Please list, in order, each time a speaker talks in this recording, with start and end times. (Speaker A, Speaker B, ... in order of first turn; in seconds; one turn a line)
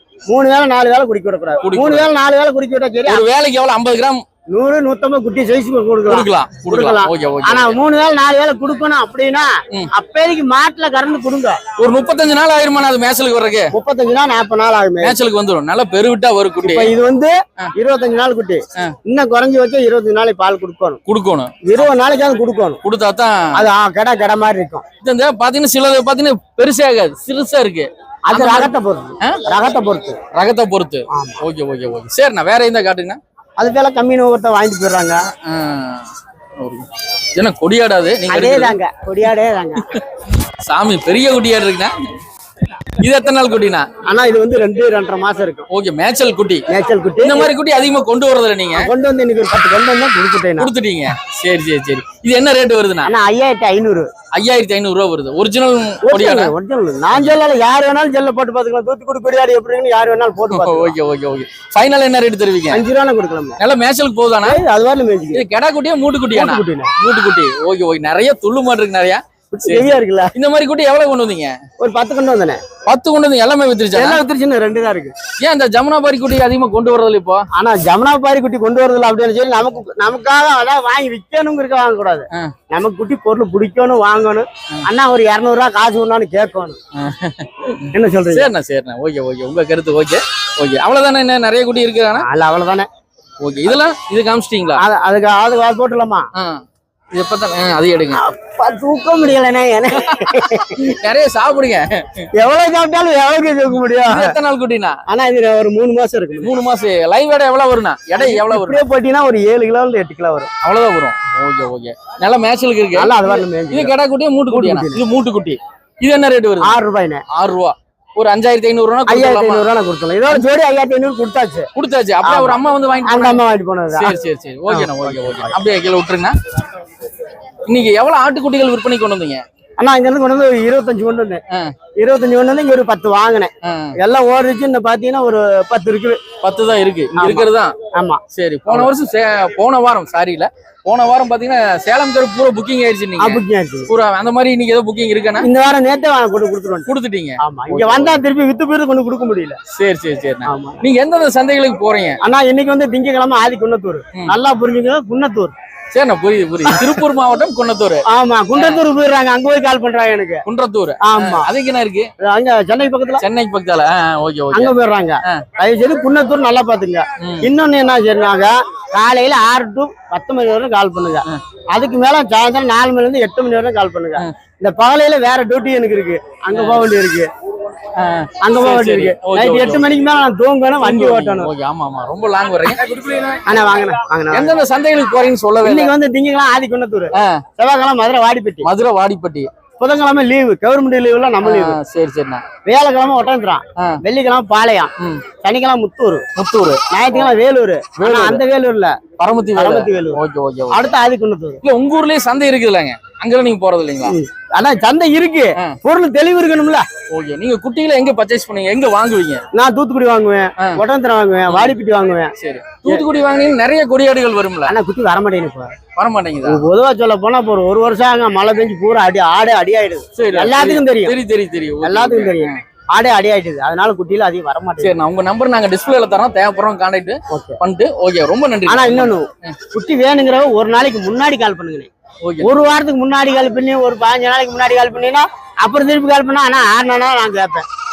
Speaker A: 0.3-3.2
Speaker B: 1.6-2.1
Speaker B: 3.0-4.2
Speaker A: 4.5-11.6
Speaker B: 6.1-7.8
Speaker B: 11.8-13.7
Speaker A: 13.7-15.2
Speaker B: 15.0-16.9
Speaker A: 16.6-21.0
Speaker B: 21.1-21.9
Speaker A: 21.6-22.8
Speaker B: 22.8-23.6
Speaker A: 23.5-24.8
Speaker B: 25.0-29.4
Speaker A: 28.3-30.2
Speaker B: 30.3-33.2
Speaker A: 31.1-31.4
Speaker A: 33.6-35.2
Speaker B: 35.4-38.8
Speaker A: 38.3-39.9
Speaker B: 39.8-40.1
Speaker B: 40.6-41.9
Speaker B: 43.0-43.9
Speaker A: 44.1-45.7
Speaker B: 45.7-46.6
Speaker A: 46.7-47.5
Speaker B: 47.2-48.9
Speaker A: 48.8-50.7
Speaker B: 50.6-53.1
Speaker A: 53.0-54.1
Speaker B: 54.3-56.5
Speaker A: 56.0-61.0
Speaker B: 57.1-57.4
Speaker B: 60.5-62.8
Speaker A: 62.7-63.6
Speaker B: 63.6-64.6
Speaker A: 64.4-65.4
Speaker B: 65.3-71.5
Speaker A: 66.3-66.9
Speaker A: 69.5-70.3
Speaker A: 71.8-72.6
Speaker B: 72.9-74.2
Speaker A: 73.9-75.1
Speaker B: 75.4-77.5
Speaker A: 77.6-86.8
Speaker B: 87.0-92.3
Speaker A: 87.9-88.5
Speaker A: 92.2-92.9
Speaker B: 93.4-94.8
Speaker A: 94.8-96.3
Speaker B: 96.3-96.6
Speaker B: 97.1-98.2
Speaker A: 98.1-100.8
Speaker B: 100.0-102.3
Speaker A: 102.4-104.4
Speaker B: 104.1-105.0
Speaker A: 105.1-106.5
Speaker B: 106.4-108.8
Speaker A: 108.2-110.5
Speaker B: 110.6-116.8
Speaker A: 112.9-114.0
Speaker A: 114.5-115.0
Speaker A: 116.6-117.2
Speaker B: 117.3-119.7
Speaker A: 119.1-121.7
Speaker B: 121.8-123.4
Speaker A: 122.2-124.2
Speaker B: 123.9-126.3
Speaker A: 124.7-125.4
Speaker B: 127.7-129.4
Speaker A: 129.8-131.4
Speaker A: 132.0-136.2
Speaker B: 133.6-134.0
Speaker B: 136.4-137.7
Speaker A: 137.1-138.9
Speaker B: 138.3-145.5
Speaker A: 143.2-143.9
Speaker A: 145.4-146.9
Speaker B: 146.9-148.2
Speaker A: 147.4-149.6
Speaker B: 149.7-152.2
Speaker A: 150.5-150.8
Speaker A: 152.2-155.5
Speaker B: 155.9-158.0
Speaker A: 156.7-156.9
Speaker A: 158.1-160.4
Speaker B: 158.6-158.8
Speaker B: 160.5-162.1
Speaker A: 161.0-161.5
Speaker A: 162.2-163.2
Speaker B: 163.2-165.4
Speaker A: 164.5-177.3
Speaker B: 167.2-167.5
Speaker B: 176.5-176.9
Speaker B: 178.0-179.9
Speaker A: 178.4-181.5
Speaker B: 180.8-183.5
Speaker A: 183.4-184.6
Speaker B: 184.3-185.9
Speaker A: 185.6-188.7
Speaker B: 187.1-187.4
Speaker B: 188.6-189.5
Speaker A: 189.8-191.8
Speaker B: 191.4-192.4
Speaker A: 192.7-194.9
Speaker B: 195.0-195.2
Speaker A: 195.4-196.2
Speaker B: 196.3-197.3
Speaker A: 196.9-199.0
Speaker B: 198.0-198.4
Speaker B: 199.2-200.8
Speaker A: 199.6-201.6
Speaker B: 201.6-204.2
Speaker A: 204.0-206.9
Speaker B: 207.1-209.4
Speaker A: 209.5-212.3
Speaker B: 211.5-211.8
Speaker B: 212.4-214.8
Speaker A: 214.7-215.7
Speaker B: 216.0-216.6
Speaker A: 216.4-221.2
Speaker B: 220.2-222.6
Speaker A: 221.8-224.9
Speaker B: 224.8-229.6
Speaker A: 227.3-227.6
Speaker A: 228.7-231.9
Speaker B: 232.2-232.7
Speaker A: 232.4-237.7